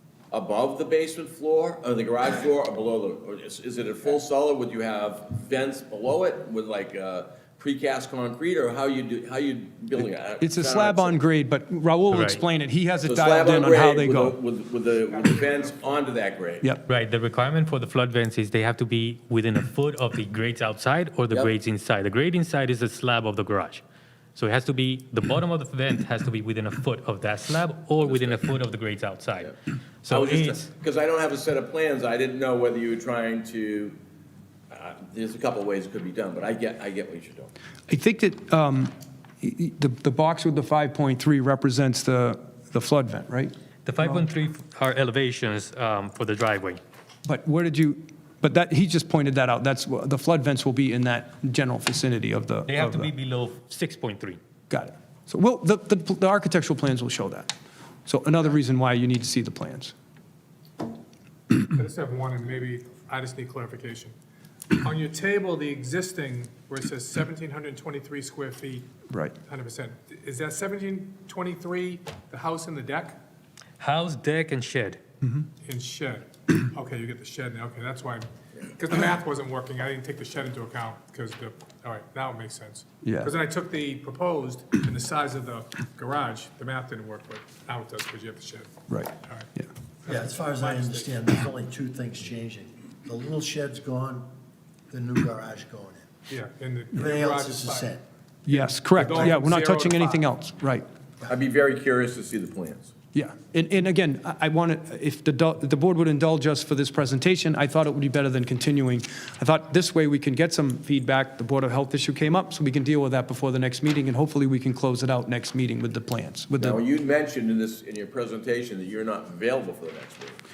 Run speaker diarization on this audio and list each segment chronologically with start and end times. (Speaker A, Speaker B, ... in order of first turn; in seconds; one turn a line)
Speaker A: 0.3-11.2
Speaker B: 10.4-14.4
Speaker C: 12.1-12.4
Speaker A: 13.0-16.7
Speaker C: 16.9-23.8
Speaker C: 24.4-30.7
Speaker A: 28.0-28.4
Speaker A: 30.1-34.0
Speaker A: 34.7-37.5
Speaker B: 37.9-44.2
Speaker C: 43.9-46.8
Speaker B: 47.2-53.1
Speaker C: 52.7-54.4
Speaker B: 54.7-57.5
Speaker B: 58.1-59.9
Speaker D: 61.7-64.1
Speaker D: 64.8-68.9
Speaker D: 69.5-73.2
Speaker C: 73.8-75.0
Speaker D: 75.6-88.7
Speaker B: 83.0-83.3
Speaker B: 88.9-89.7
Speaker D: 89.2-89.5
Speaker D: 90.0-91.2
Speaker E: 90.1-94.3
Speaker E: 94.9-96.1
Speaker D: 96.3-97.9
Speaker E: 96.9-98.0
Speaker D: 98.5-100.3
Speaker B: 98.5-100.8
Speaker E: 99.0-99.3
Speaker A: 101.3-102.9
Speaker B: 103.1-116.8
Speaker A: 116.6-120.4